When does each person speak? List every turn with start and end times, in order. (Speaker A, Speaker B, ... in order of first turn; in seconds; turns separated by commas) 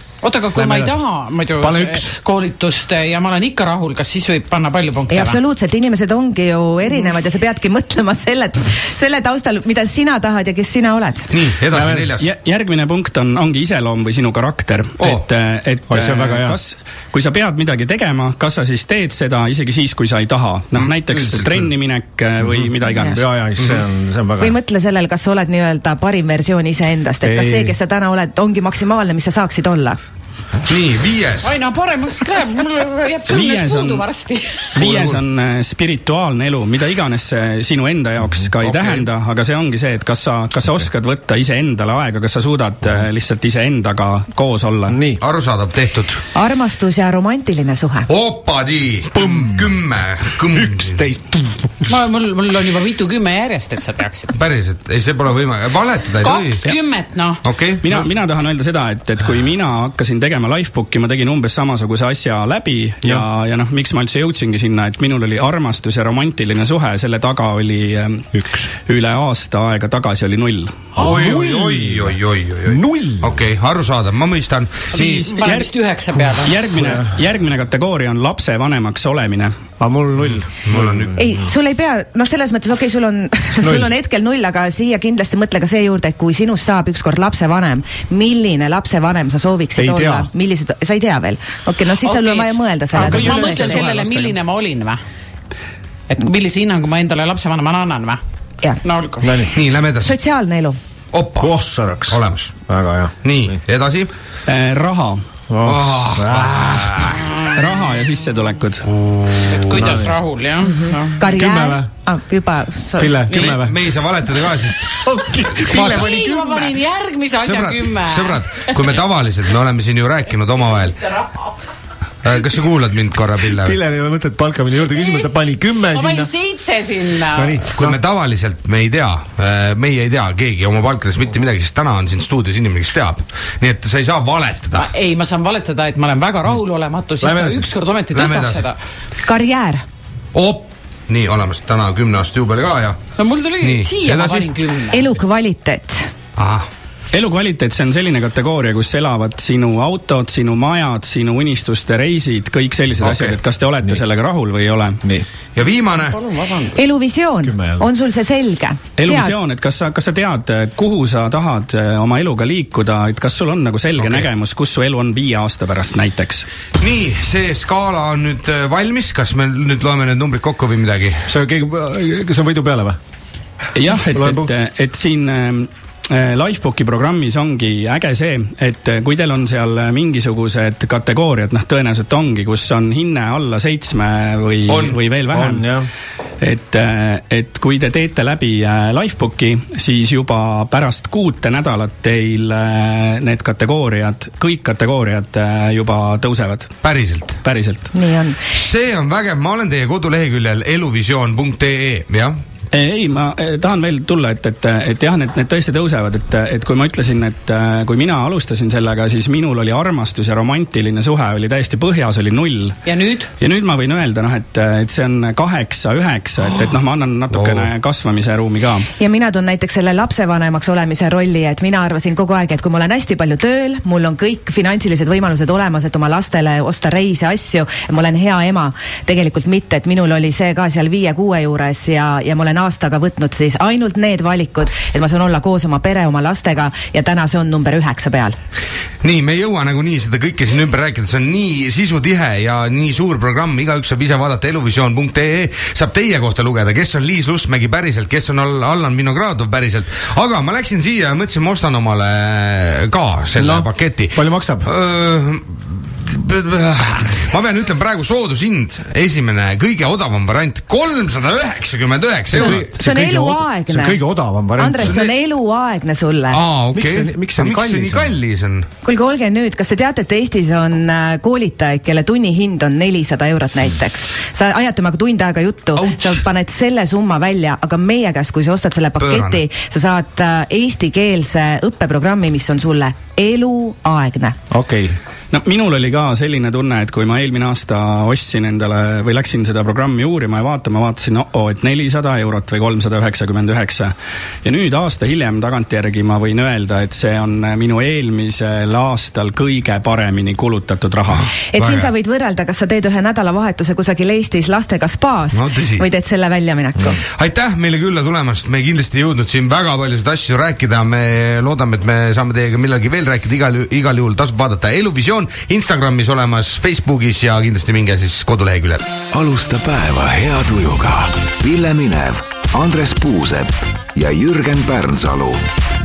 Speaker A: 0.2-5.4, Speaker B: 0.5-1.0, Speaker B: 1.6-2.1, Speaker C: 5.1-11.3, Speaker D: 11.3-12.3, Speaker B: 11.7-12.2, Speaker E: 12.2-23.2, Speaker B: 15.9-16.6, Speaker D: 20.8-21.7, Speaker B: 22.4-24.6, Speaker C: 22.9-23.2, Speaker C: 24.4-30.0, Speaker B: 27.2-27.8, Speaker D: 30.7-31.6, Speaker A: 31.4-34.7, Speaker E: 33.3-34.1, Speaker E: 34.8-45.0, Speaker B: 34.9-35.2, Speaker D: 38.6-39.1, Speaker B: 44.9-45.2, Speaker D: 45.2-46.2, Speaker C: 46.4-48.1, Speaker D: 48.1-51.0, Speaker B: 49.1-49.8, Speaker B: 50.5-51.9, Speaker A: 51.9-54.3, Speaker D: 54.3-56.7, Speaker A: 56.2-57.4, Speaker D: 57.4-57.9, Speaker E: 57.8-68.3, Speaker B: 68.3-68.7, Speaker E: 68.8-70.8, Speaker D: 71.0-75.3, Speaker B: 71.0-72.2, Speaker B: 72.7-73.4, Speaker E: 74.9-75.7, Speaker A: 75.0-76.6, Speaker E: 76.4-79.5, Speaker B: 76.8-77.0, Speaker B: 79.8-81.2, Speaker D: 80.2-81.5, Speaker C: 81.2-94.0, Speaker B: 83.6-83.9, Speaker B: 89.8-90.3, Speaker A: 92.0-95.0, Speaker E: 93.0-93.9, Speaker B: 93.0-93.3, Speaker A: 96.1-98.2, Speaker A: 98.8-99.4, Speaker B: 99.2-99.5, Speaker D: 99.5-100.1, Speaker C: 100.0-100.8, Speaker D: 101.1-101.5, Speaker B: 101.4-103.1, Speaker D: 102.1-102.5, Speaker D: 103.2-104.1, Speaker E: 104.5-105.2, Speaker B: 105.5-107.3, Speaker D: 105.6-107.3, Speaker E: 107.5-108.8, Speaker D: 108.9-109.9, Speaker A: 109.5-111.2, Speaker B: 109.7-110.2, Speaker C: 110.7-113.2, Speaker B: 111.3-111.9, Speaker B: 113.0-113.8, Speaker D: 113.3-115.0, Speaker B: 114.9-116.8, Speaker D: 115.6-116.1, Speaker A: 115.6-118.8, Speaker D: 117.4-121.1, Speaker D: 122.2-123.8, Speaker B: 123.5-126.3, Speaker A: 125.9-127.5, Speaker B: 127.3-128.0, Speaker D: 127.7-134.9, Speaker A: 134.8-138.8, Speaker B: 137.2-137.7, Speaker D: 138.1-138.7, Speaker C: 139.2-139.8, Speaker D: 140.3-143.0, Speaker A: 143.2-145.1, Speaker D: 143.6-144.5, Speaker C: 144.9-146.0, Speaker D: 146.4-146.7, Speaker E: 147.1-155.0, Speaker B: 153.0-154.0, Speaker D: 155.6-156.2, Speaker A: 156.2-156.8, Speaker C: 156.7-159.4, Speaker B: 157.4-157.9, Speaker E: 159.0-166.5, Speaker D: 166.8-171.3, Speaker B: 171.3-173.0, Speaker E: 173.8-185.7, Speaker B: 174.1-174.5, Speaker D: 184.7-185.0, Speaker B: 185.3-185.9, Speaker E: 186.4-196.7, Speaker D: 196.8-197.4, Speaker E: 197.4-197.9, Speaker C: 197.9-198.4, Speaker D: 198.5-202.4, Speaker E: 202.7-212.8, Speaker A: 212.9-213.3, Speaker E: 213.4-218.9, Speaker D: 217.3-217.7, Speaker C: 219.0-238.4, Speaker D: 239.0-262.8, Speaker B: 253.4-254.7, Speaker B: 262.3-264.9, Speaker C: 262.4-264.0, Speaker C: 264.6-266.4, Speaker D: 264.8-265.1, Speaker D: 266.3-268.7, Speaker B: 266.7-268.1, Speaker C: 268.8-284.4, Speaker D: 275.8-276.2, Speaker D: 279.0-279.4, Speaker B: 284.5-285.0, Speaker E: 285.3-301.3, Speaker C: 301.5-307.0, Speaker D: 301.6-301.9, Speaker D: 305.3-305.9, Speaker D: 307.0-318.9, Speaker F: 319.1-325.4